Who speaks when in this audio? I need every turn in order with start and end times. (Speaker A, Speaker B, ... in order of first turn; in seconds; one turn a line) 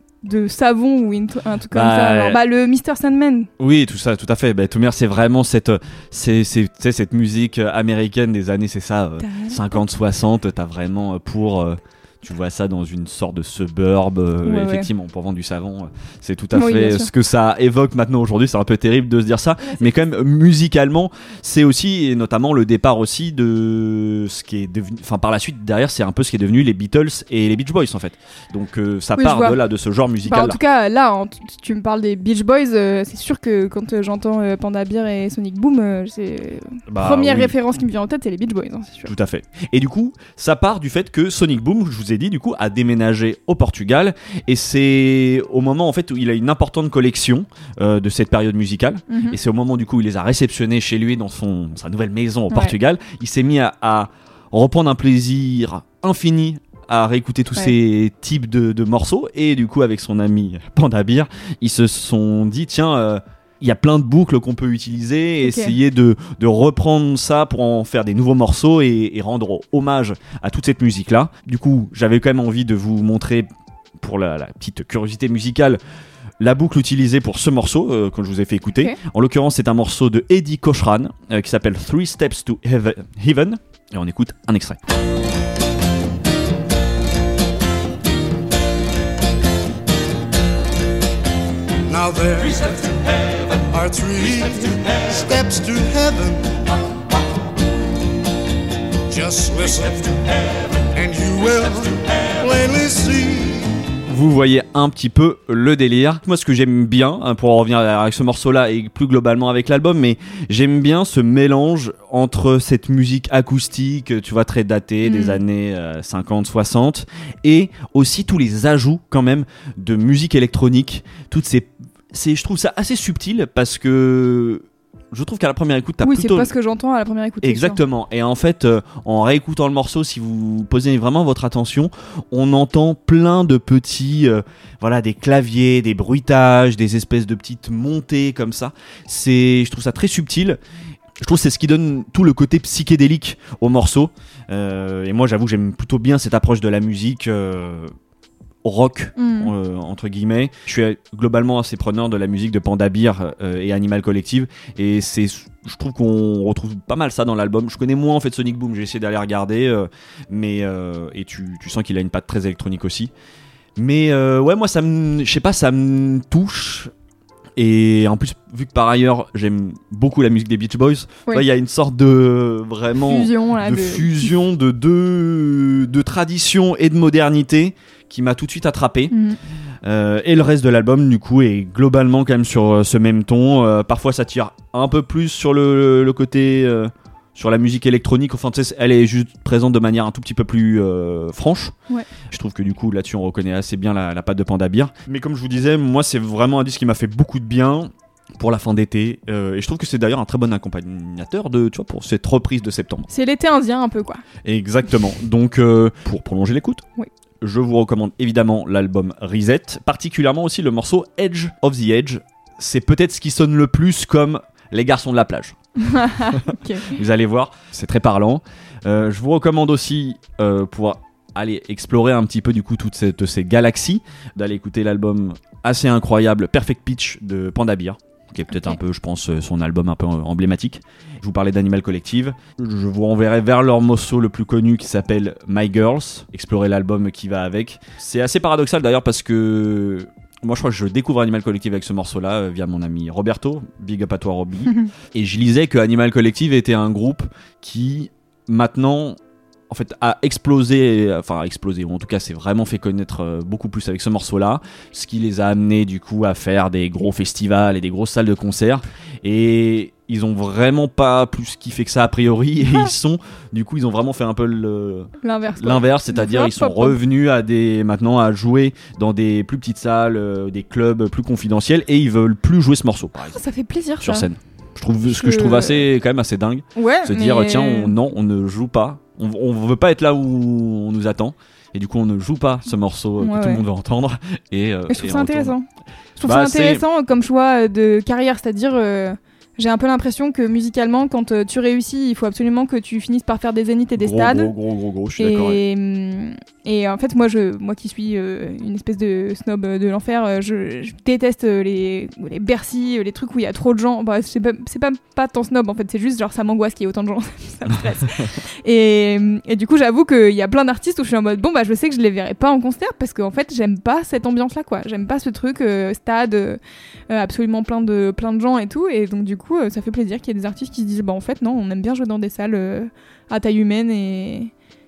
Speaker A: 0.2-3.5
Speaker B: 1.7-2.4
Speaker B: 3.6-30.6
Speaker A: 9.2-9.8
Speaker A: 14.4-14.9
Speaker A: 16.5-17.1
Speaker A: 19.6-19.9
Speaker A: 29.2-29.6
Speaker A: 30.2-39.1
Speaker B: 36.9-37.5
Speaker B: 39.1-73.5
Speaker A: 49.1-49.4
Speaker A: 65.4-65.7
Speaker B: 74.0-75.8
Speaker B: 76.4-84.8
Speaker C: 91.9-96.5
Speaker C: 99.1-103.8
Speaker B: 104.1-126.5
Speaker A: 115.0-115.4
Speaker A: 126.0-127.8
Speaker B: 127.4-140.6
Speaker B: 141.2-147.9
Speaker B: 148.6-163.1
Speaker A: 149.2-149.5
Speaker B: 163.8-166.9
Speaker B: 167.6-179.1
Speaker A: 173.0-174.3
Speaker A: 179.1-179.4
Speaker B: 179.8-191.8
Speaker B: 192.3-203.1
Speaker A: 203.1-204.2
Speaker B: 204.4-206.8
Speaker B: 207.4-215.6
Speaker A: 215.8-216.9
Speaker B: 216.3-249.2
Speaker B: 249.7-273.4
Speaker A: 265.2-267.0
Speaker A: 273.3-274.3
Speaker B: 274.0-285.6
Speaker A: 275.1-275.9
Speaker A: 276.8-277.9
Speaker A: 283.2-283.6
Speaker A: 284.9-285.6
Speaker A: 286.2-294.5
Speaker B: 286.2-286.8
Speaker B: 294.0-295.6
Speaker A: 295.2-324.5